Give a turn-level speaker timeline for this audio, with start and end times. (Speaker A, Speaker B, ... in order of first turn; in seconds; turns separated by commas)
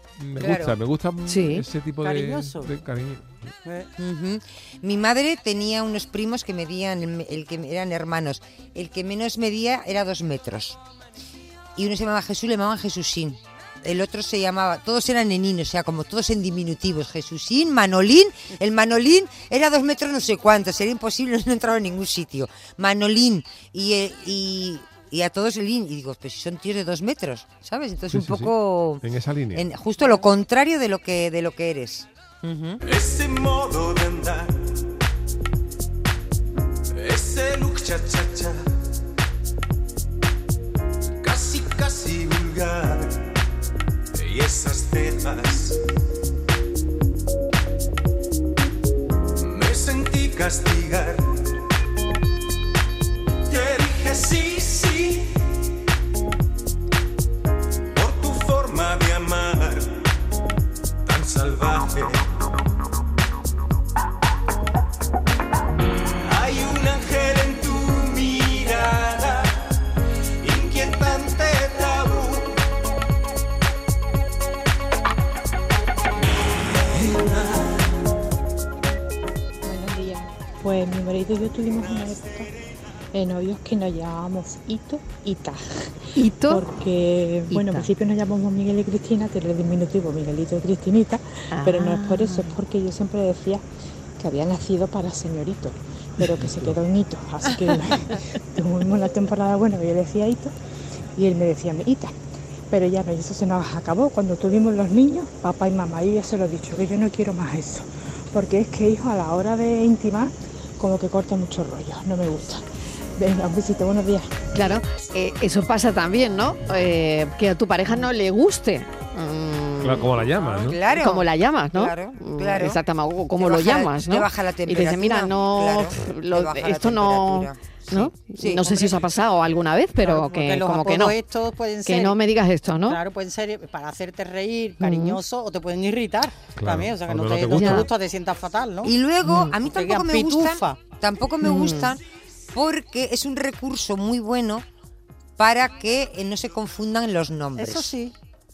Speaker A: 0.2-3.4, Speaker B: 0.4-0.8, Speaker C: 1.2-1.6, Speaker D: 2.0-2.7, Speaker B: 4.0-10.8, Speaker B: 11.8-29.0, Speaker A: 28.1-29.6, Speaker B: 29.5-32.8, Speaker E: 32.8-34.6, Speaker E: 36.9-38.6, Speaker E: 41.2-43.3, Speaker E: 44.1-45.8, Speaker E: 49.4-51.4, Speaker E: 53.5-55.4, Speaker E: 57.9-60.0, Speaker E: 61.0-62.3, Speaker E: 66.2-69.6, Speaker E: 70.4-72.5, Speaker E: 76.9-77.8, Speaker F: 79.6-82.5, Speaker E: 81.8-82.4, Speaker F: 83.1-85.9, Speaker C: 86.2-86.6, Speaker F: 86.5-93.6, Speaker C: 87.5-87.9, Speaker C: 91.5-92.6, Speaker F: 94.2-100.5, Speaker F: 101.2-102.1, Speaker F: 102.7-112.6, Speaker F: 113.2-114.3, Speaker C: 114.5-120.1, Speaker A: 119.8-120.8, Speaker B: 120.4-122.8, Speaker C: 120.9-131.2, Speaker B: 123.4-128.8, Speaker D: 128.6-129.0, Speaker D: 130.0-132.2, Speaker C: 131.8-133.0, Speaker D: 132.9-138.9, Speaker C: 134.8-135.2, Speaker A: 136.6-137.9, Speaker C: 137.5-137.9, Speaker B: 138.8-142.0, Speaker C: 139.2-139.5, Speaker D: 139.6-140.8, Speaker C: 141.4-141.9, Speaker B: 142.5-144.6, Speaker B: 145.4-147.9, Speaker D: 147.6-148.1